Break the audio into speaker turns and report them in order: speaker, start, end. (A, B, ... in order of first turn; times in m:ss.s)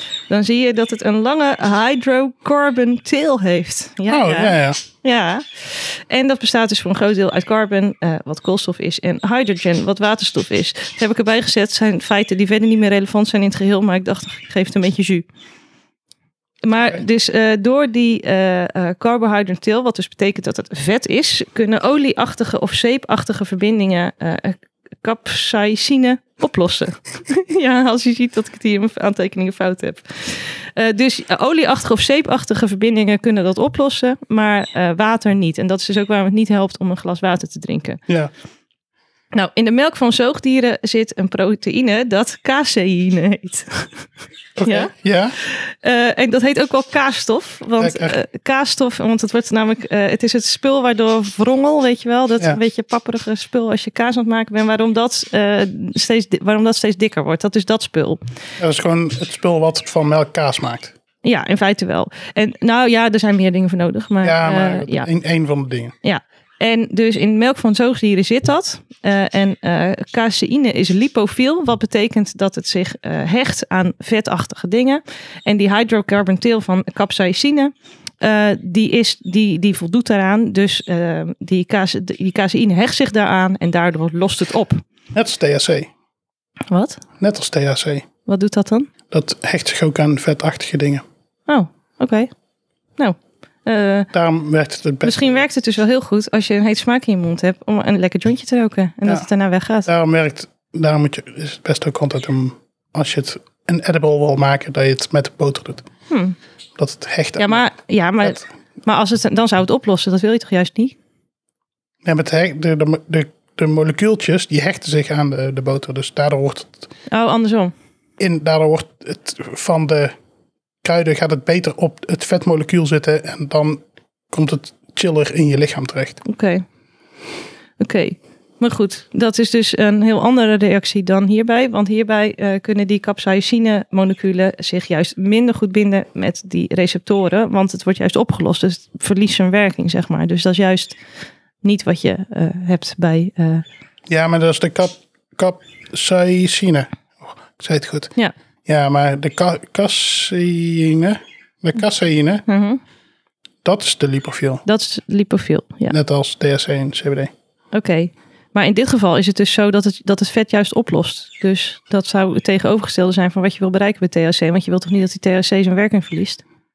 0:00.3-0:15.2 A
0:04.1-0:04.8 B
0:16.6-0:38.0 A
0:39.3-0:44.0 A
0:44.6-0:45.4 B
0:44.6-0:58.2 A
0:47.8-0:48.2 B
0:58.6-1:00.9 B
1:01.2-1:05.1 A
1:04.2-1:05.9 B
1:06.0-1:24.8 A
1:25.1-1:25.9 B
1:26.7-1:27.0 A
1:27.2-1:28.0 B
1:28.2-1:28.9 A
1:29.1-1:31.0 B
1:31.5-1:32.3 A
1:33.0-1:34.1 A
1:34.1-1:35.4 B
1:35.0-1:39.9 A
1:39.8-1:45.8 B
1:46.1-1:46.4 A
1:46.8-1:47.6 B
1:47.4-1:51.0 A
1:52.0-1:56.9 B
1:57.1-1:57.7 A
1:58.2-2:00.1 B
2:00.8-2:06.2 B
2:06.2-2:06.6 A
2:07.8-2:21.0 A
2:21.6-2:23.6 A
2:24.1-2:28.1 B
2:28.6-2:32.4 B
2:32.5-2:32.8 A
2:33.6-2:34.6 B
2:34.6-2:36.0 A
2:35.9-2:37.3 B
2:37.7-2:46.4 A